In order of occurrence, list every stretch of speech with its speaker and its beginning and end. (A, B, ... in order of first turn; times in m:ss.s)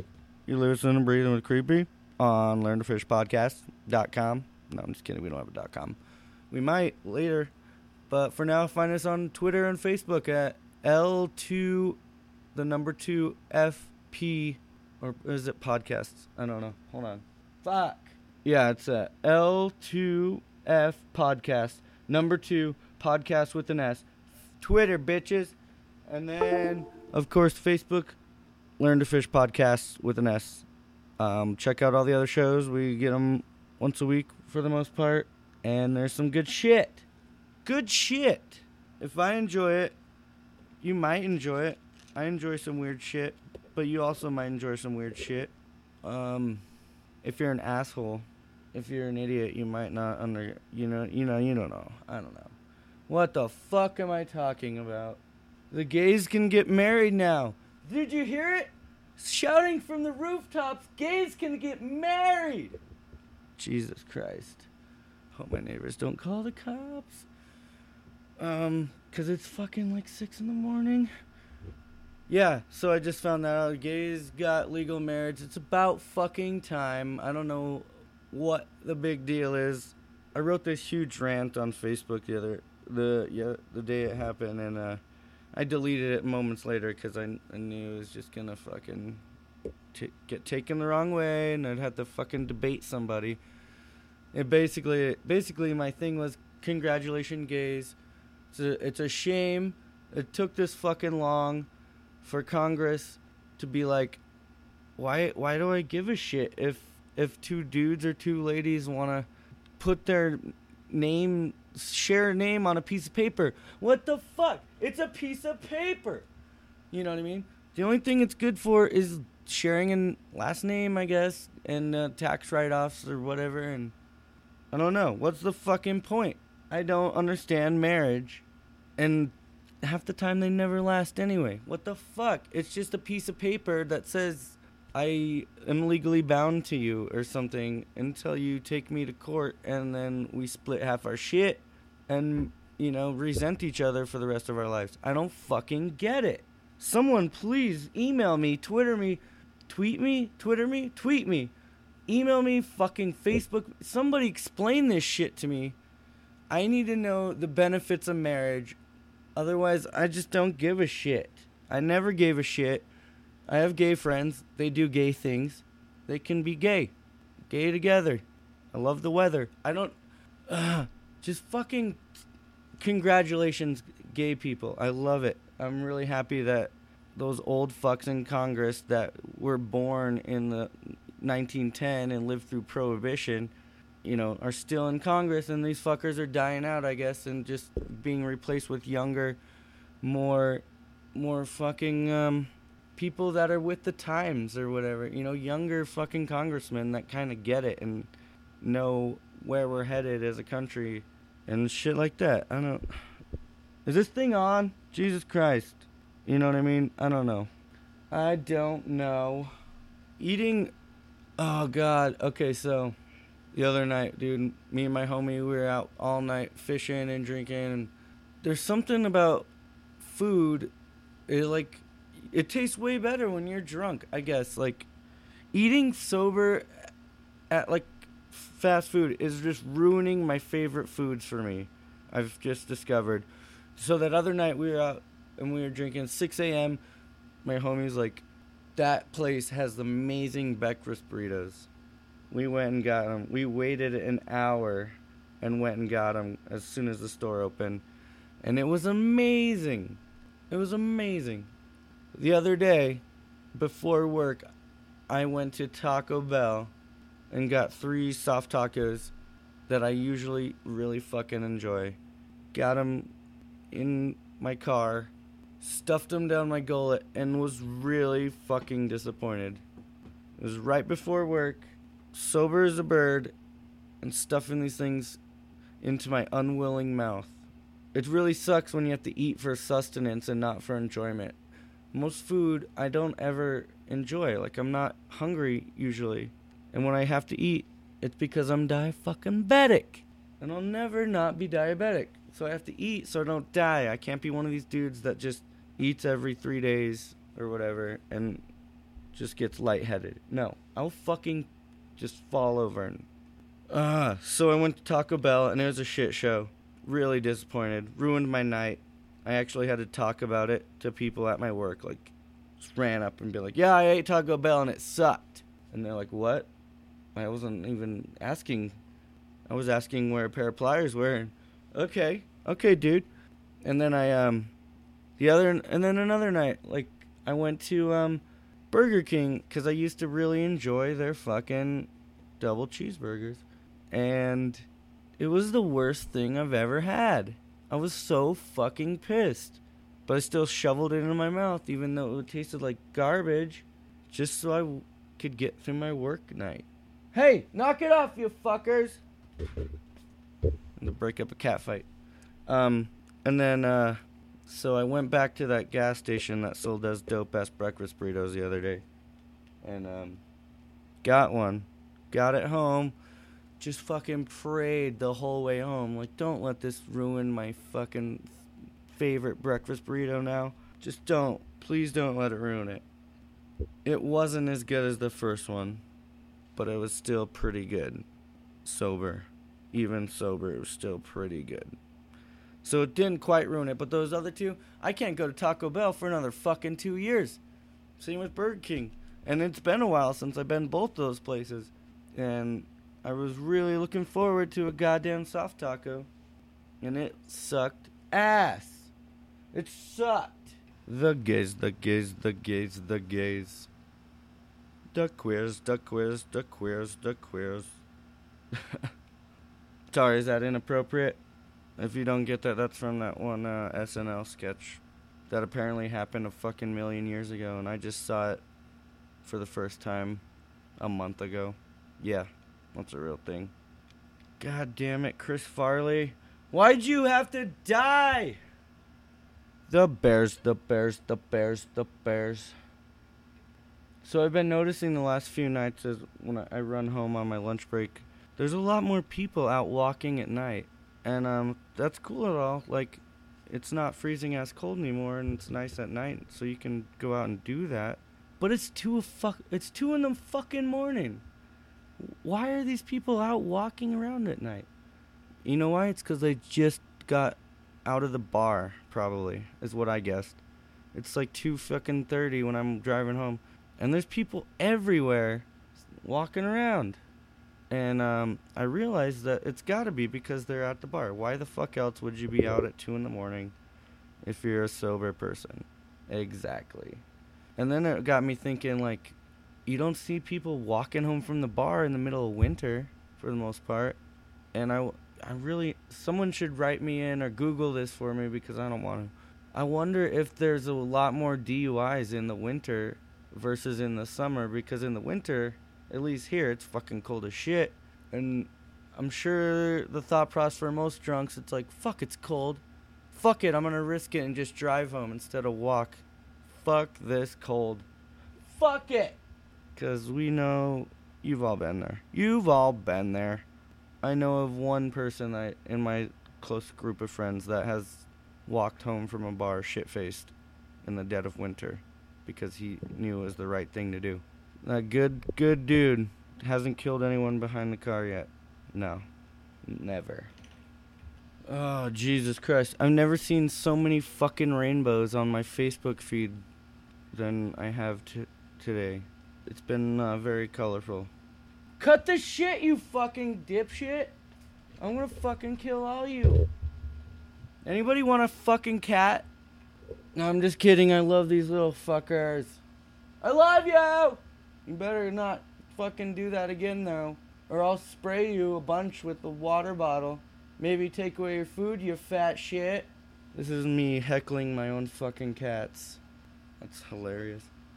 0:00.5-0:06.0 A
0:06.5-0:07.5 A
0:08.1-0:12.0 A
0:12.5-0:24.1 A
0:24.6-0:25.6 A
0:26.1-0:28.2 A
0:28.8-0:30.7 A
0:31.2-0:37.1 A
0:37.6-0:40.0 A
0:40.8-0:46.6 A
0:47.2-0:52.6 A
0:53.1-1:02.8 A
1:03.6-1:04.7 A
1:05.4-1:07.3 A
1:08.4-1:11.1 A
1:12.3-1:25.0 A
1:25.5-1:29.2 A
1:29.9-1:33.4 A
1:34.3-1:38.0 A
1:38.5-1:41.7 A
1:42.2-1:44.2 A
1:45.0-1:56.3 A
1:56.9-2:03.9 A
2:04.7-2:08.5 A
2:09.0-2:31.5 A
2:32.1-2:35.8 A
2:36.5-2:38.8 A
2:39.4-2:42.9 A
2:43.5-2:46.9 A
2:47.5-2:50.0 A
2:50.5-2:52.0 A
2:52.8-3:03.5 A
3:04.0-3:09.4 A
3:10.0-3:22.8 A
3:23.8-3:27.5 A
3:28.1-3:29.5 A
3:30.2-3:30.7 A
3:31.4-3:33.0 A
3:33.5-3:40.7 A
3:41.3-3:44.9 A
3:45.5-3:46.7 A
3:47.5-3:56.8 A
3:57.4-3:58.2 A
3:58.8-4:01.7 A
4:02.3-4:07.8 A
4:08.4-4:11.5 A
4:12.2-4:14.4 A
4:15.1-4:16.7 A
4:17.3-4:19.1 A
4:19.7-4:22.0 A
4:22.5-4:23.1 A
4:23.7-4:29.6 A
4:30.4-4:33.3 A
4:34.0-4:35.2 A
4:35.8-4:37.4 A
4:37.9-4:41.4 A
4:41.9-4:58.4 A
4:59.1-5:03.1 A
5:03.7-5:16.5 A
5:17.2-5:18.8 A
5:19.5-5:23.1 A
5:23.6-5:24.5 A
5:25.2-5:34.7 A
5:35.2-5:49.0 A
5:50.8-5:51.9 A
5:52.5-5:58.8 A
5:59.6-6:00.2 A
6:01.0-6:03.0 A
6:03.6-6:08.3 A
6:08.9-6:12.8 A
6:13.8-6:15.8 A
6:16.6-6:18.1 A
6:18.6-6:21.8 A
6:22.6-6:27.4 A
6:28.0-6:36.1 A
6:36.8-6:38.9 A
6:39.5-6:43.7 A
6:44.9-6:47.8 A
6:48.6-6:48.9 A
6:49.9-6:51.2 A
6:51.8-6:58.4 A
6:59.2-7:00.2 A
7:00.8-7:03.5 A
7:04.4-7:08.4 A
7:09.7-7:12.5 A
7:14.0-7:31.2 A
7:32.0-7:34.7 A
7:35.4-7:40.4 A
7:40.9-7:47.0 A
7:47.7-7:53.6 A
7:54.2-7:57.0 A
7:57.6-8:04.0 A
8:04.5-8:27.9 A
8:28.4-8:29.2 A
8:29.8-8:33.5 A
8:34.0-8:49.1 A
8:49.6-8:50.3 A
8:51.5-8:56.4 A
8:57.1-9:01.1 A
9:01.8-9:04.2 A
9:04.8-9:06.5 A
9:07.6-9:09.3 A
9:10.1-9:12.6 A
9:13.2-9:26.0 A
9:26.6-9:27.5 A